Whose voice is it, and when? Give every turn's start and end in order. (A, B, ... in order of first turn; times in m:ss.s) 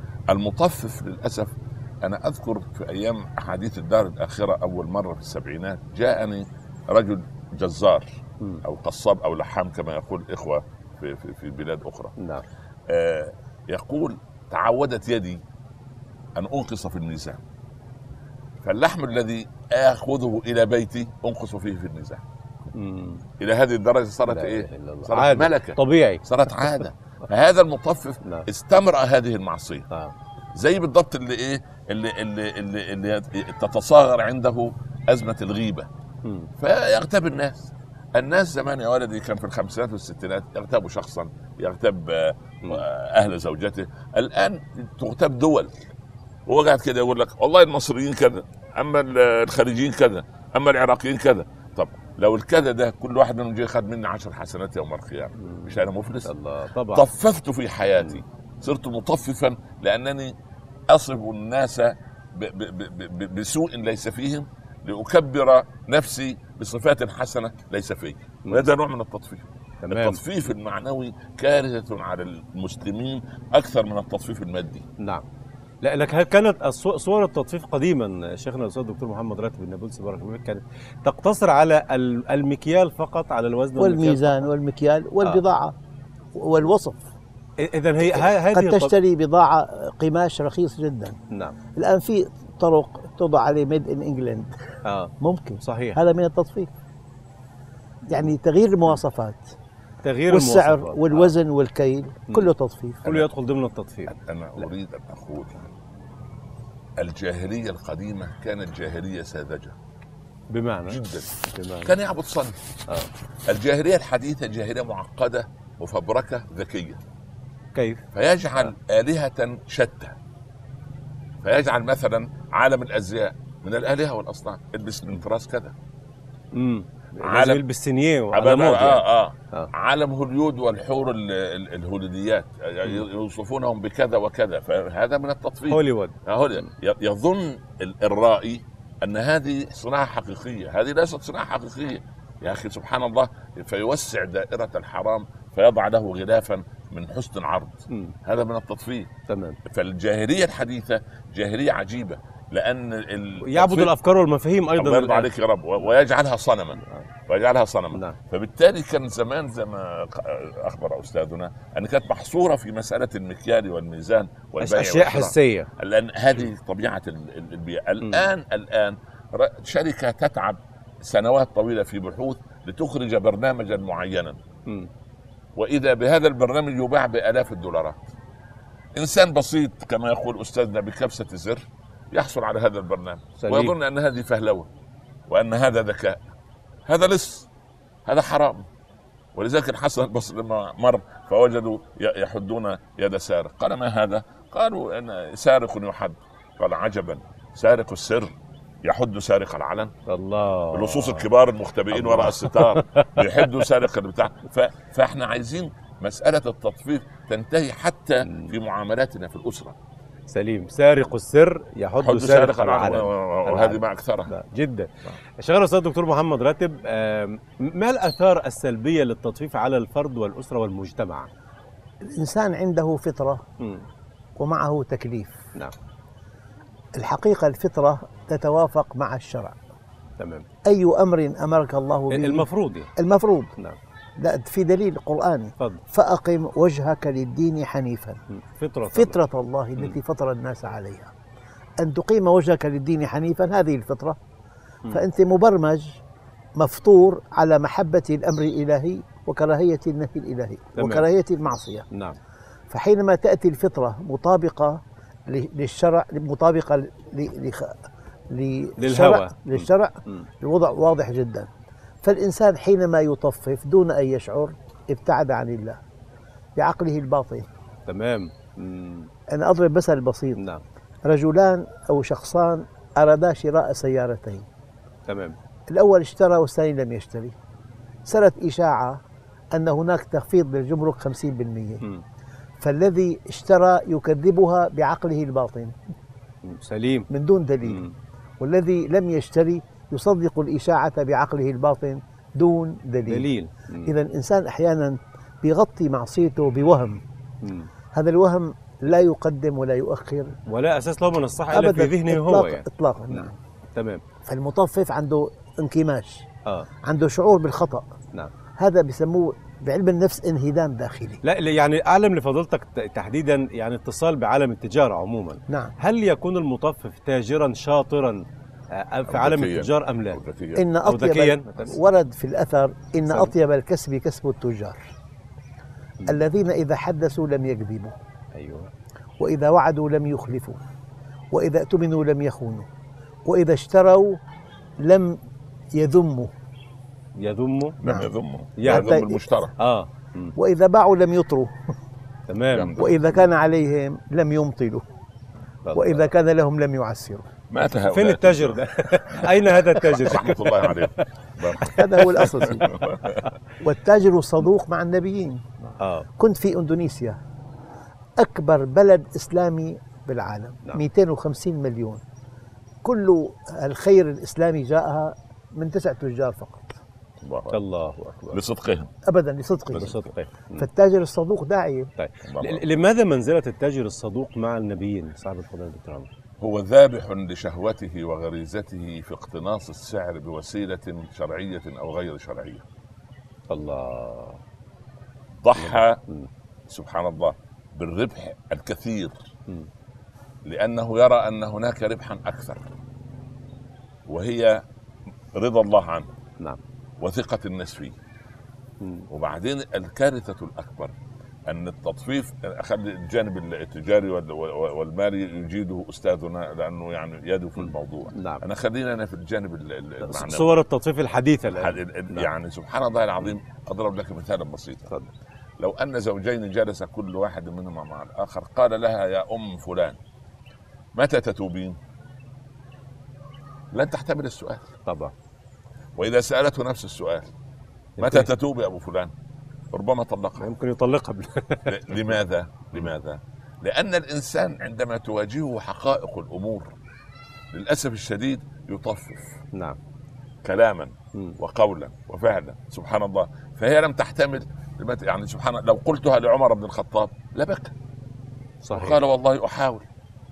0:00.3-0:12.2 A
0:12.2-0:12.4 B
0:12.9-0:15.4 A
0:16.4-0:17.4 A
0:18.6-0:22.2 A
0:22.7-0:23.2 B
0:23.4-0:29.9 A
0:24.3-0:26.2 B
0:30.6-0:35.9 A
0:36.2-0:36.5 B
0:36.6-0:45.9 A
0:46.5-0:56.3 A
0:56.3-0:57.0 B
0:56.9-1:00.3 A
1:00.9-1:14.8 A
1:09.8-1:10.2 B
1:15.8-1:24.4 B
1:23.8-1:25.8 C
1:26.4-1:27.1 C
1:27.6-1:28.9 B
1:28.1-1:31.2 C
1:31.3-1:31.6 B
1:31.8-1:34.6 C
1:34.8-1:36.0 B
1:35.2-1:36.7 C
1:38.1-1:39.5 C
1:40.0-1:41.4 B
1:40.3-1:43.3 C
1:43.0-1:44.6 B
1:44.1-1:45.7 A
1:47.0-1:49.8 A
1:50.5-1:51.9 B
1:50.9-1:51.3 A
1:51.8-1:52.6 A
1:53.5-1:57.0 A
1:57.8-1:58.0 B
1:58.1-2:00.2 A
2:01.4-2:05.7 A
2:06.5-2:09.7 B
2:07.2-2:07.6 A
2:08.3-2:29.1 A
2:15.7-2:16.1 B
2:29.3-2:29.6 B
2:29.7-2:33.9 A
2:33.4-2:35.3 B
2:34.8-2:54.4 A
2:44.6-2:45.7 B
2:48.0-2:48.3 B
2:55.6-2:58.1 A
2:59.0-3:04.7 A
3:03.4-3:03.8 B
3:05.3-3:06.2 A
3:06.9-3:07.5 A
3:08.1-3:08.7 A
3:09.4-3:19.9 A
3:20.1-3:21.2 B
3:20.7-3:29.8 A
3:22.0-3:23.2 B
3:30.3-3:41.3 B
3:32.0-3:34.3 A
3:42.0-3:43.4 C
3:44.4-3:45.4 C
3:47.0-3:49.6 C
3:50.2-3:50.5 B
3:50.7-3:53.5 C
3:52.1-3:52.9 B
3:54.2-3:58.2 C
3:58.4-3:59.1 B
3:58.9-4:01.1 C
4:01.8-4:04.2 C
4:04.9-4:06.0 C
4:06.6-4:11.9 C
4:10.8-4:11.1 B
4:12.7-4:17.7 C
4:18.3-4:21.5 C
4:18.8-4:20.3 B
4:22.0-4:25.8 C
4:26.6-4:27.5 C
4:27.9-4:29.1 B
4:29.3-4:30.4 C
4:31.1-4:34.5 C
4:35.1-4:35.4 B
4:35.7-4:37.4 C
4:38.1-4:39.0 C
4:39.5-4:41.8 C
4:42.6-4:45.8 C
4:46.5-4:47.1 B
4:47.1-4:47.8 C
4:47.7-4:47.9 B
4:48.4-4:53.3 C
4:53.1-4:53.9 B
4:53.9-4:57.0 C
4:57.4-4:57.7 B
4:57.9-5:00.4 C
5:00.5-5:04.0 B
5:01.5-5:03.4 C
5:04.3-5:06.2 C
5:06.9-5:07.9 C
5:08.6-5:11.2 C
5:11.2-5:20.2 B
5:15.5-5:15.8 C
5:19.1-5:20.7 A
5:20.6-5:24.9 C
5:20.8-5:21.8 B
5:26.1-5:28.0 C
5:28.4-5:28.7 B
5:29.2-5:30.6 C
5:31.3-5:32.7 C
5:33.3-5:34.2 C
5:34.8-5:35.2 C
5:35.8-5:36.3 C
5:37.2-5:37.8 B
5:37.8-5:39.5 A
5:37.8-5:38.1 C
5:38.6-5:38.9 B
5:38.6-5:39.2 C
5:39.6-5:40.3 B
5:40.4-5:41.5 C
5:42.3-5:42.8 B
5:42.5-5:43.0 A
5:42.8-5:44.8 C
5:45.7-5:46.0 B
5:45.7-5:47.2 C
5:47.5-5:48.6 A
5:47.9-5:50.7 B
5:49.2-5:53.1 A
5:51.7-5:52.7 C
5:51.8-5:52.3 B
5:53.6-5:55.4 C
5:56.2-5:57.2 C
5:58.2-6:02.0 C
6:02.8-6:06.8 C
6:07.2-6:07.6 A
6:07.5-6:08.4 B
6:08.3-6:08.9 A
6:09.1-6:10.0 C
6:09.7-6:10.0 A
6:09.7-6:10.6 B
6:10.6-6:11.9 C
6:12.0-6:16.1 B
6:12.2-6:12.7 A
6:16.4-6:22.6 A
6:23.5-6:24.4 B
6:25.4-6:26.0 A
6:25.6-6:26.3 B
6:26.7-6:29.2 A
6:30.5-6:32.7 A
6:34.1-6:34.6 A
6:35.3-6:36.1 A
6:37.0-6:38.0 A
6:38.8-6:39.1 B
6:39.1-6:40.9 A
6:41.5-6:50.6 A
6:47.6-6:48.4 B
6:50.0-6:52.3 B
6:51.5-6:54.9 A
6:55.6-7:00.0 A
7:01.0-7:01.8 A
7:03.7-7:04.7 A
7:04.9-7:05.1 B
7:06.0-7:07.3 A
7:08.0-7:08.3 B
7:08.0-7:09.1 A
7:09.7-7:10.5 A
7:10.4-7:12.1 B
7:11.7-7:16.7 A
7:17.5-7:19.4 A
7:20.4-7:27.7 A
7:28.6-7:29.0 B
7:28.7-7:29.9 A